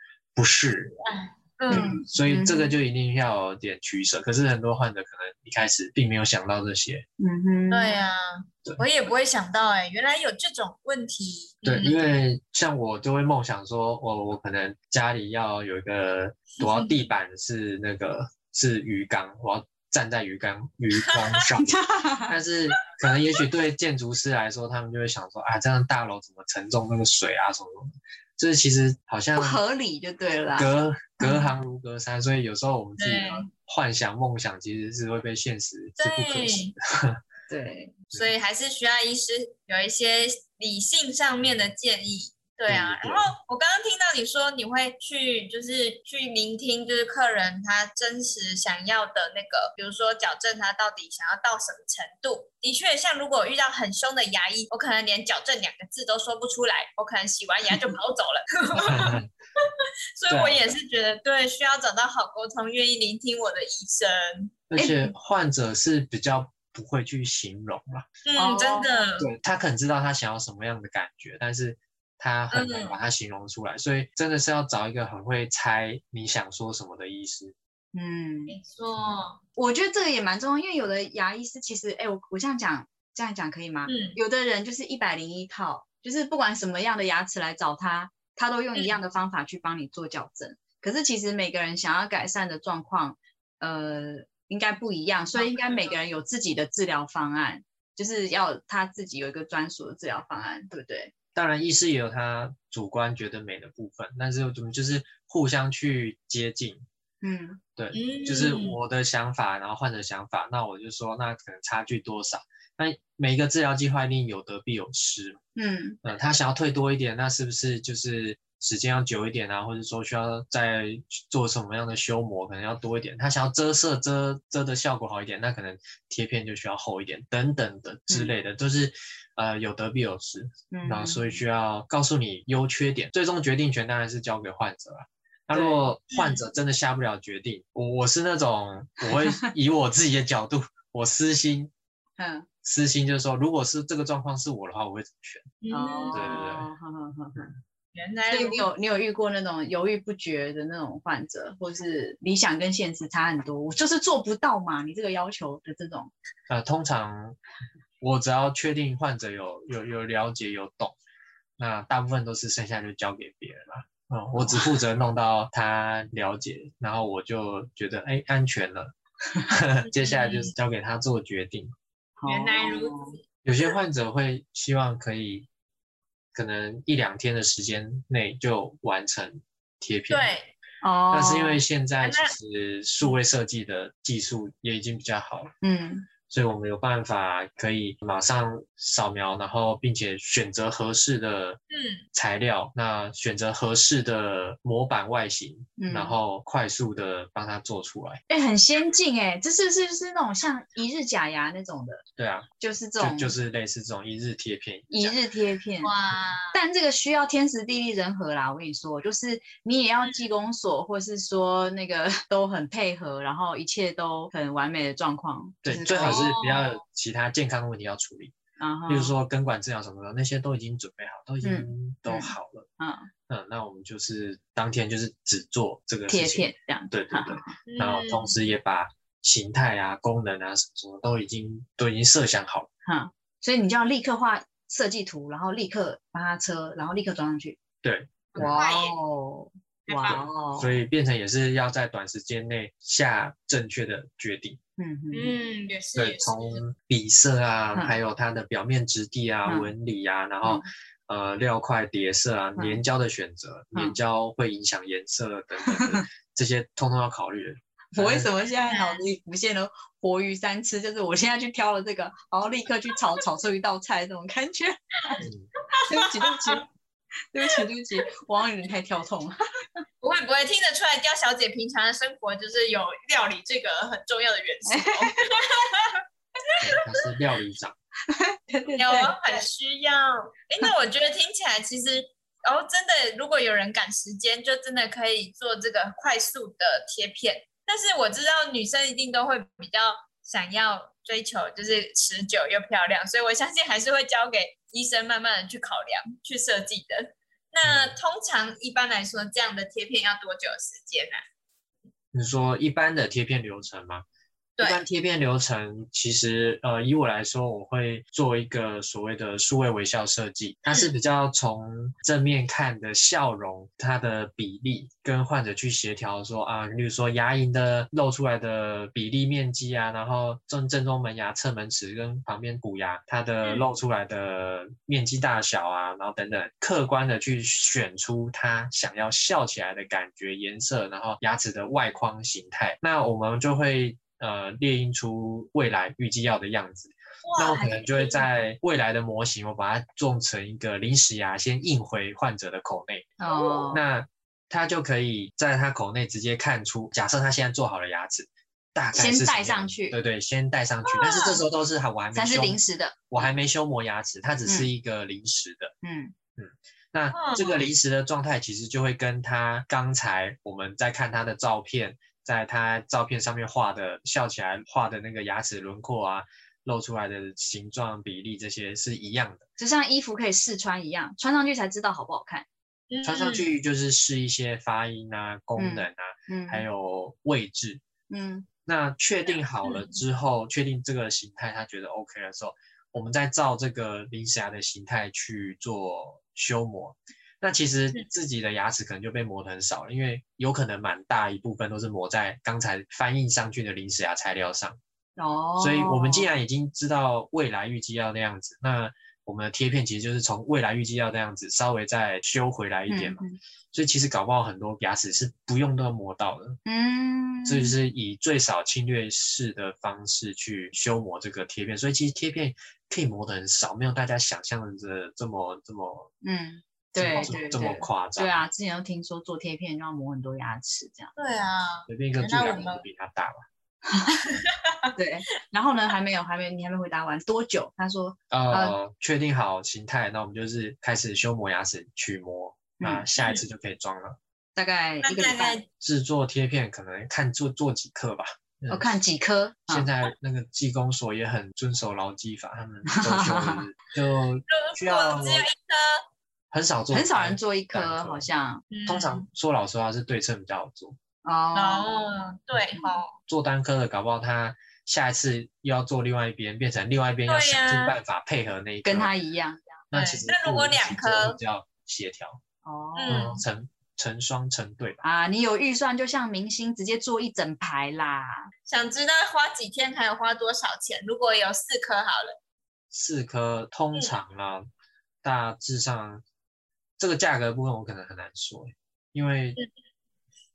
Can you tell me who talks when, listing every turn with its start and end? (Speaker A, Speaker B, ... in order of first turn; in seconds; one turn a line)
Speaker A: 0.3-1.0
Speaker B: 1.0-2.0
Speaker C: 1.7-2.7
Speaker A: 1.7-7.0
Speaker C: 7.2-8.0
Speaker B: 7.7-12.0
Speaker A: 11.6-21.7
Speaker B: 16.6-17.1
Speaker C: 21.5-22.3
Speaker A: 22.3-29.6
Speaker C: 29.4-30.7
Speaker A: 30.5-37.2
Speaker C: 31.2-31.5
Speaker B: 33.0-33.5
Speaker B: 36.0-36.7
Speaker C: 37.5-37.9
Speaker B: 38.1-64.6
Speaker A: 42.7-43.3
Speaker A: 58.7-59.3
Speaker A: 60.3-60.7
Speaker A: 64.7-68.0
Speaker B: 68.2-69.2
Speaker C: 68.3-69.1
Speaker A: 69.2-77.5
Speaker B: 72.5-73.0
Speaker C: 77.9-78.5
Speaker B: 78.5-79.4
Speaker C: 79.5-101.1
Speaker B: 83.9-84.2
Speaker B: 95.3-95.9
Speaker A: 101.3-106.8
Speaker C: 107.2-107.6
Speaker A: 107.8-115.4
Speaker B: 107.9-108.8
Speaker C: 115.5-116.0
Speaker A: 116.0-141.7
Speaker C: 130.7-131.4
Speaker C: 135.5-135.8
Speaker B: 136.1-136.4
Speaker C: 142.2-142.5
Speaker A: 142.6-145.5
Speaker B: 145.6-146.3
Speaker C: 145.7-147.4
Speaker A: 146.1-146.7
Speaker B: 147.9-148.7
Speaker C: 148.3-156.1
Speaker A: 156.5-157.4
Speaker A: 158.0-160.9
Speaker A: 161.6-168.9
Speaker C: 164.4-164.7
Speaker A: 169.5-171.7
Speaker B: 169.9-170.5
Speaker C: 172.2-173.1
Speaker B: 172.3-173.2
Speaker A: 173.4-175.5
Speaker A: 176.3-180.3
Speaker B: 180.1-180.5
Speaker C: 180.8-181.6
Speaker A: 181.1-185.5
Speaker B: 182.0-182.3
Speaker C: 185.6-186.1
Speaker A: 186.3-191.6
Speaker B: 191.7-192.1
Speaker A: 192.1-198.2
Speaker C: 195.8-196.1
Speaker C: 198.3-202.0
Speaker A: 202.2-202.5
Speaker C: 202.6-203.3
Speaker A: 203.0-205.1
Speaker C: 204.9-205.9
Speaker B: 205.8-206.6
Speaker C: 206.5-216.3
Speaker A: 215.6-218.3
Speaker B: 216.0-216.8
Speaker C: 218.6-219.2
Speaker A: 218.9-222.7
Speaker C: 221.4-223.1
Speaker A: 223.3-232.7
Speaker C: 226.1-227.5
Speaker B: 227.7-228.3
Speaker C: 232.8-237.6
Speaker A: 237.8-238.6
Speaker C: 238.3-240.7
Speaker B: 238.4-239.0
Speaker B: 239.9-240.2
Speaker A: 240.0-244.6
Speaker C: 244.8-245.3
Speaker B: 245.1-246.6
Speaker A: 245.9-258.3
Speaker C: 252.6-252.8
Speaker C: 255.7-256.0
Speaker C: 257.9-265.2
Speaker B: 258.7-259.0
Speaker B: 265.1-266.6
Speaker A: 265.2-265.5
Speaker C: 265.9-266.6
Speaker C: 267.3-269.8
Speaker B: 270.0-276.8
Speaker C: 274.6-275.4
Speaker A: 276.6-277.7
Speaker C: 278.1-279.4
Speaker B: 278.8-301.2
Speaker A: 297.6-297.9
Speaker A: 302.1-304.0
Speaker A: 304.6-343.1
Speaker B: 310.6-310.9
Speaker B: 337.2-338.2
Speaker C: 343.2-343.8
Speaker A: 343.7-355.7
Speaker C: 348.9-350.0
Speaker B: 350.8-351.4
Speaker C: 352.1-353.2
Speaker C: 355.8-356.1
Speaker A: 356.4-369.4
Speaker B: 357.1-357.6
Speaker C: 369.6-372.4
Speaker B: 372.9-373.5
Speaker A: 373.0-377.8
Speaker C: 375.6-376.6
Speaker C: 378.1-378.5
Speaker A: 378.6-394.8
Speaker B: 379.6-380.0
Speaker C: 395.1-396.3
Speaker A: 395.6-406.6
Speaker C: 402.9-403.4
Speaker C: 406.6-407.8
Speaker A: 407.4-416.1
Speaker C: 416.2-421.1
Speaker A: 416.9-418.4
Speaker B: 421.1-422.8
Speaker A: 421.9-423.4
Speaker C: 423.9-424.2
Speaker B: 424.2-424.9
Speaker C: 424.9-428.8
Speaker A: 428.3-434.2
Speaker C: 432.8-433.1
Speaker C: 434.6-435.6
Speaker B: 435.0-435.6
Speaker A: 435.8-439.0
Speaker C: 438.7-439.9
Speaker A: 439.7-445.5
Speaker C: 442.9-443.6
Speaker B: 444.5-446.0
Speaker A: 446.5-448.3
Speaker C: 446.9-448.6
Speaker B: 448.7-449.2
Speaker A: 448.8-451.0
Speaker C: 451.2-451.9
Speaker B: 451.5-453.1
Speaker C: 452.5-453.0
Speaker A: 453.2-459.1
Speaker B: 457.3-457.9
Speaker C: 458.8-459.8
Speaker A: 459.9-462.4
Speaker B: 459.9-461.4
Speaker C: 462.6-463.4
Speaker B: 462.9-463.4
Speaker A: 463.1-465.0
Speaker C: 465.0-468.5
Speaker B: 468.7-472.4
Speaker A: 472.9-474.6
Speaker A: 475.2-476.2
Speaker A: 477.0-479.6